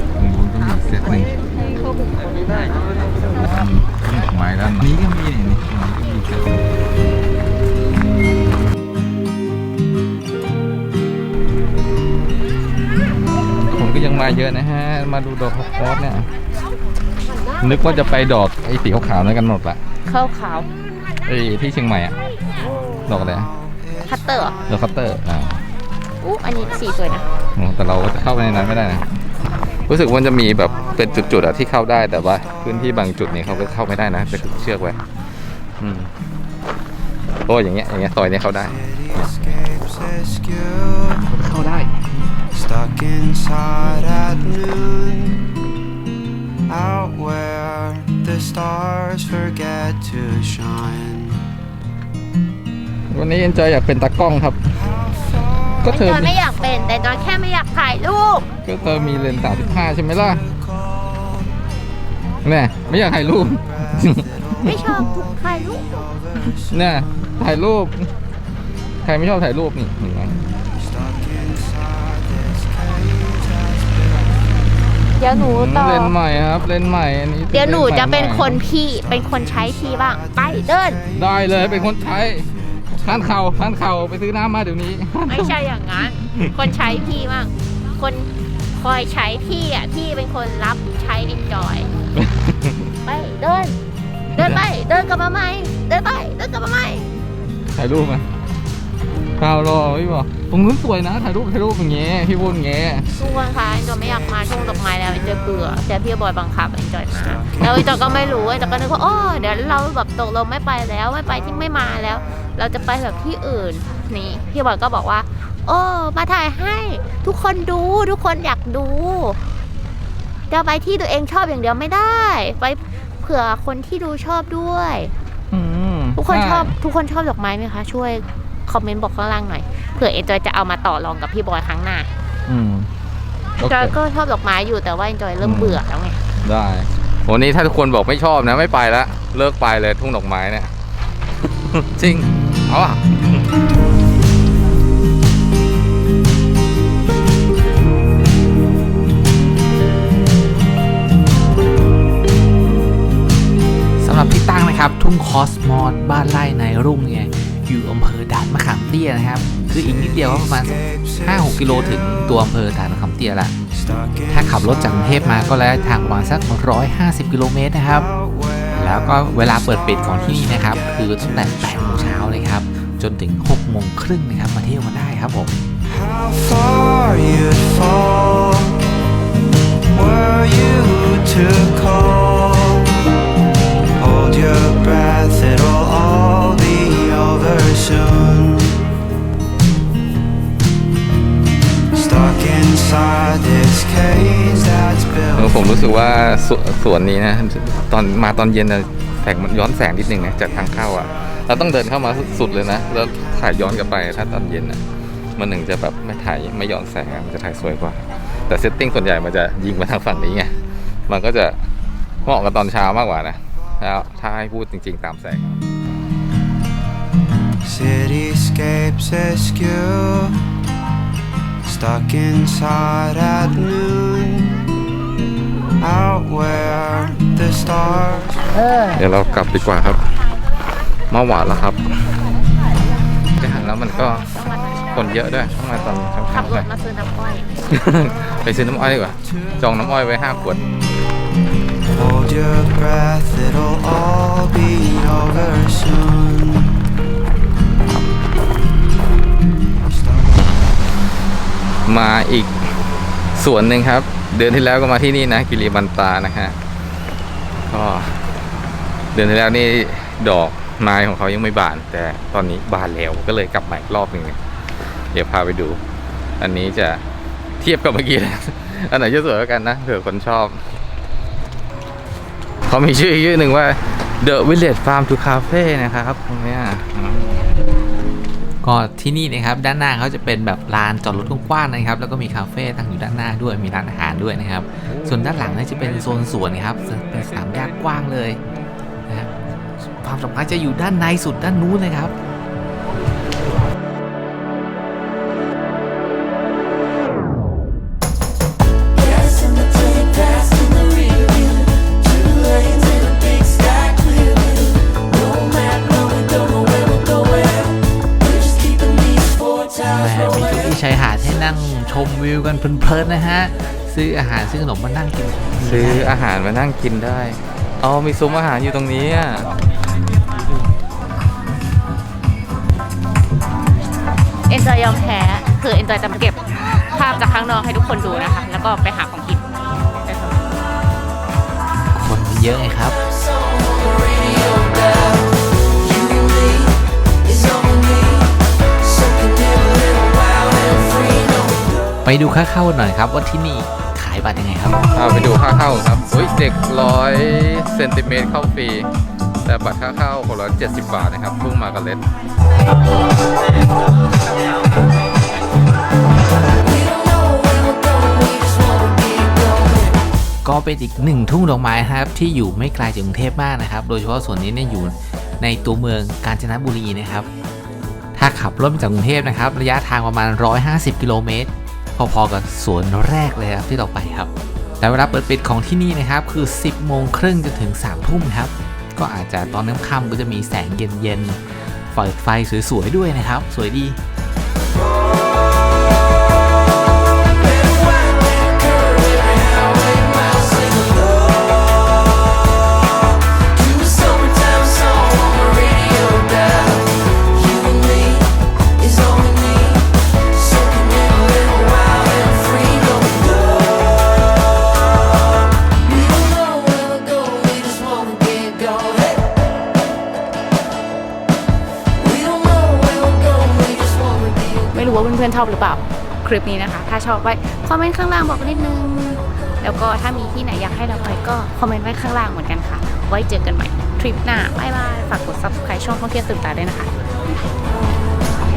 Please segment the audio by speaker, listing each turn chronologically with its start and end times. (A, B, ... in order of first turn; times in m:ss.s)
0:00.1-0:01.3 A
0:03.4-0:06.7 A
0:13.5-0:16.3 A
0:17.6-0:19.8 A
0:20.0-0:20.7 B
0:21.2-0:22.2 A
0:23.1-0:23.5 A
0:24.0-0:24.5 B
0:24.7-0:25.6 A
0:26.2-0:27.3 B
0:27.6-0:29.0 A
0:29.8-0:35.0 A
0:35.8-0:36.1 A
0:37.5-0:39.6 A
0:40.4-0:40.9 C
0:41.3-0:42.0 D
0:42.6-0:45.3 C
0:46.7-0:51.3 C
0:53.1-0:54.7 A
0:55.8-0:56.3 A
0:55.8-0:58.5 B
0:58.6-1:00.4 A
1:02.4-1:04.7 A
1:04.6-1:06.1 B
1:06.4-1:08.1 A
1:09.0-1:10.4 A
1:11.2-1:13.8 C
1:15.2-1:16.1 B
1:15.4-1:18.6 A
1:17.5-1:21.0 B
1:21.1-1:22.5 A
1:23.0-1:25.6 A
1:25.3-1:31.9 B
1:26.3-1:26.5 A
1:32.1-1:32.9 A
1:33.0-1:33.8 B
1:34.3-1:34.6 A
1:34.4-1:37.1 B
1:37.7-1:38.3 A
1:39.4-1:43.1 A
1:43.1-1:59.4 B
2:00.5-2:05.1 B
2:05.5-2:06.7 A
2:06.2-2:12.1 B
2:12.5-2:12.9 A
2:13.6-2:14.0 A
2:13.6-2:16.2 B
2:15.4-2:15.8 A
2:16.4-2:20.7 A
2:21.6-2:23.4 A
2:34.0-2:43.5 D
2:44.3-2:48.1 D
2:48.7-2:55.5 D
2:56.0-2:58.7 C
2:59.9-3:02.9 C
3:04.0-3:08.7 C
3:12.0-3:15.2 C
3:15.3-3:24.8 A
3:25.4-3:31.6 A
3:32.2-3:35.6 A
3:37.7-3:40.3 C
3:41.7-3:44.5 C
3:45.8-3:48.3 C
3:48.9-3:50.0 A
3:51.1-3:51.8 A
3:53.4-3:54.3 A
3:54.3-3:55.0 B
3:54.9-3:56.7 A
3:56.3-3:57.5 B
3:57.7-4:00.7 A
4:02.0-4:06.7 C
4:11.9-4:12.5 A
4:13.3-4:16.5 A
4:17.7-4:18.2 A
4:19.1-4:24.4 A
4:25.1-4:25.8 A
4:26.4-4:27.0 A
4:27.6-4:30.6 A
4:32.6-4:37.5 A
4:38.6-4:48.4 D
4:44.9-4:48.0 A
4:49.1-4:49.3 D
4:50.0-4:52.1 D
4:59.3-5:01.5 E
5:02.2-5:04.2 E
5:09.8-5:16.1 D
5:15.6-5:19.5 A
5:24.5-5:30.5 B
5:31.9-5:33.0 D
5:42.0-5:44.8 D
5:44.9-5:48.9 A
5:49.4-5:52.0 A
5:57.6-5:59.0 E
6:00.4-6:07.3 D
6:08.1-6:21.4 D
6:21.9-6:24.0 D
6:33.6-6:36.7 E
6:37.4-6:38.1 E
6:38.9-6:39.7 E
6:46.2-6:49.1 E
6:52.2-6:53.9 E
6:54.1-7:06.9 B